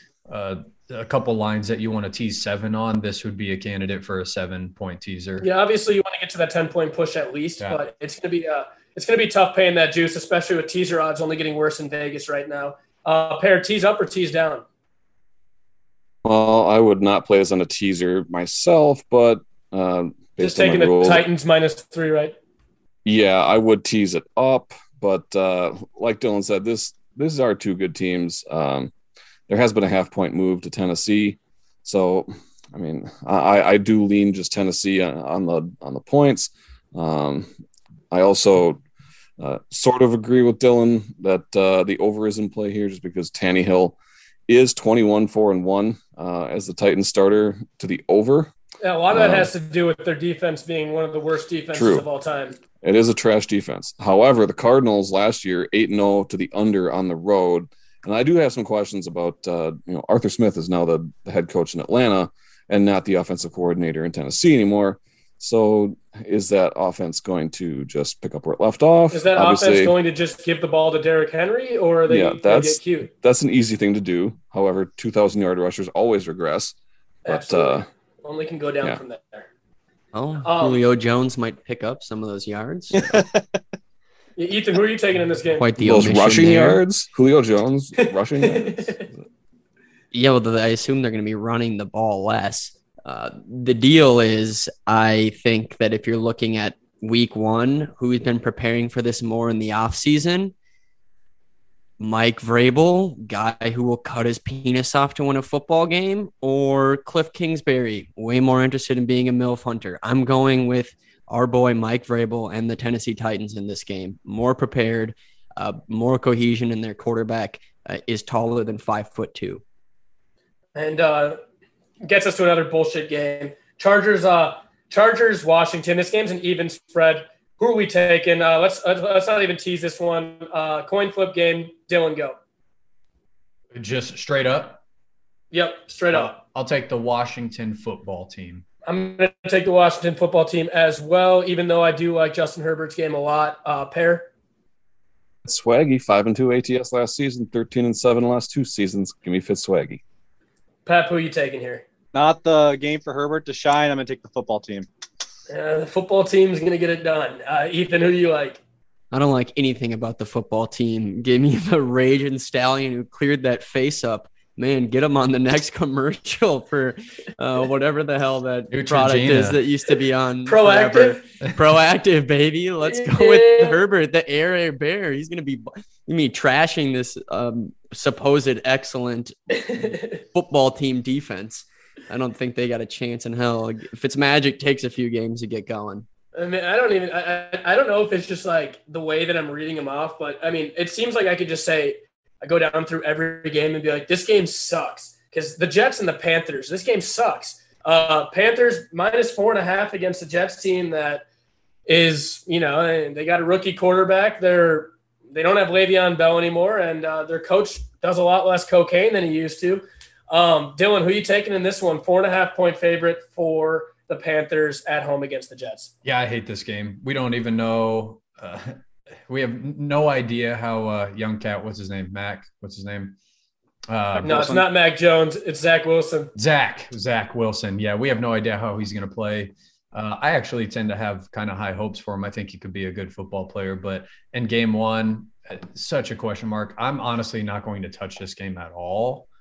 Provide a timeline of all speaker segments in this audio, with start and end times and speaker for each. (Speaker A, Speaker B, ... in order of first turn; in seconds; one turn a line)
Speaker A: 0.3-5.5
Speaker B: 5.4-14.6
Speaker C: 16.2-21.2
Speaker B: 20.4-22.3
Speaker C: 23.0-28.9
Speaker C: 29.5-37.5
Speaker C: 38.1-38.8
Speaker C: 39.4-48.5
Speaker B: 48.8-52.6
Speaker C: 49.1-49.5
Speaker C: 51.7-52.0
Speaker C: 52.8-69.9
Speaker B: 69.1-73.1
Speaker C: 72.1-77.8
Speaker B: 77.2-79.5
Speaker D: 80.1-83.0
Speaker B: 80.4-80.8
Speaker E: 82.9-83.4
Speaker B: 84.4-85.7
Speaker D: 85.5-86.8
Speaker C: 85.8-89.1
Speaker B: 88.4-89.0
Speaker D: 90.1-100.5
Speaker D: 102.0-119.6
Speaker B: 120.7-121.4
Speaker B: 122.0-132.3
Speaker A: 133.7-134.8
Speaker B: 135.5-136.3
Speaker A: 136.1-138.6
Speaker B: 138.8-144.3
Speaker C: 145.4-150.0
Speaker B: 150.8-151.8
Speaker E: 152.1-154.9
Speaker B: 155.5-158.6
Speaker D: 159.1-186.1
Speaker A: 168.7-169.6
Speaker B: 170.4-171.2
Speaker B: 172.8-173.8
Speaker B: 179.7-180.2
Speaker B: 186.3-201.2
Speaker B: 201.9-215.9
Speaker A: 216.0-223.2
Speaker A: 223.9-224.6
Speaker E: 224.2-224.6
Speaker B: 224.2-226.3
Speaker A: 226.3-239.3